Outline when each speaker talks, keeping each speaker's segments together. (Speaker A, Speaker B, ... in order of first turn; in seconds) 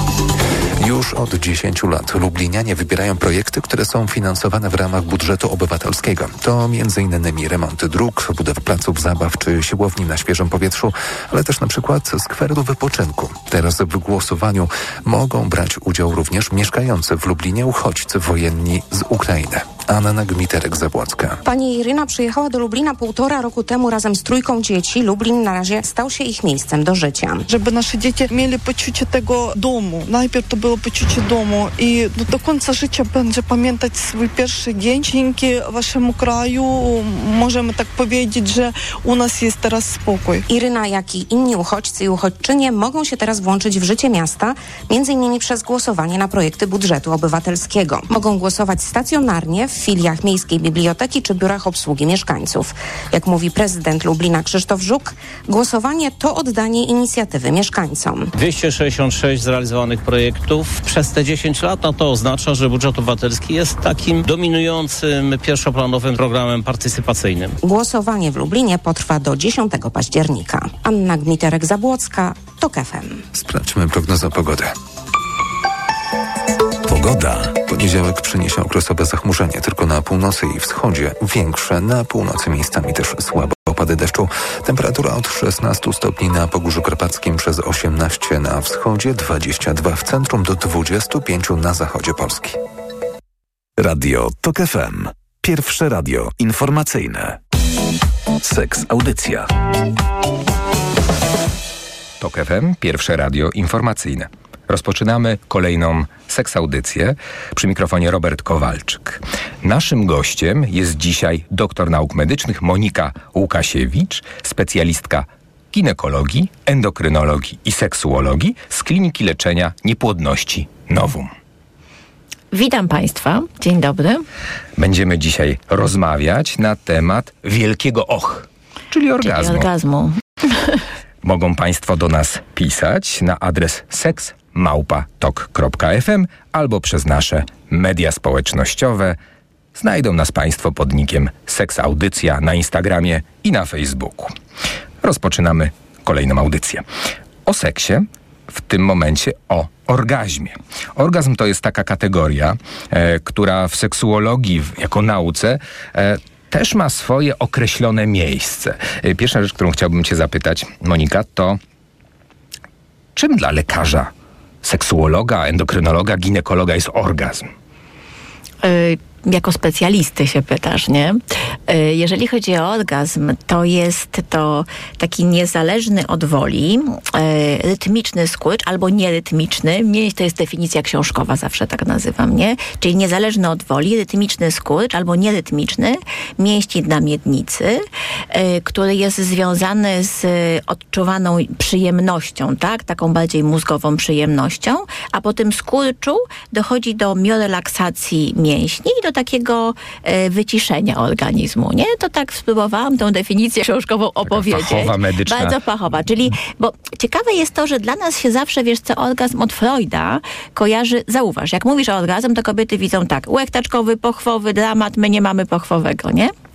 Speaker A: 0.8-21.4, 73.3-74.7, 76.9-92.6
Speaker B: 21.4-27.4, 40.5-58.3, 67.6-73.2
Speaker C: 27.5-40.4
Speaker D: 58.4-67.6
Speaker E: 77.0-77.3, 93.8-97.4, 98.4-99.5
Speaker F: 102.2-121.3, 124.8-129.7, 131.2-139.2, 139.7-144.3, 145.0-146.8, 147.4-161.6, 163.2-164.1, 164.6-167.5, 204.3-205.6
Speaker G: 122.5-124.2, 129.2-130.8, 168.6-216.3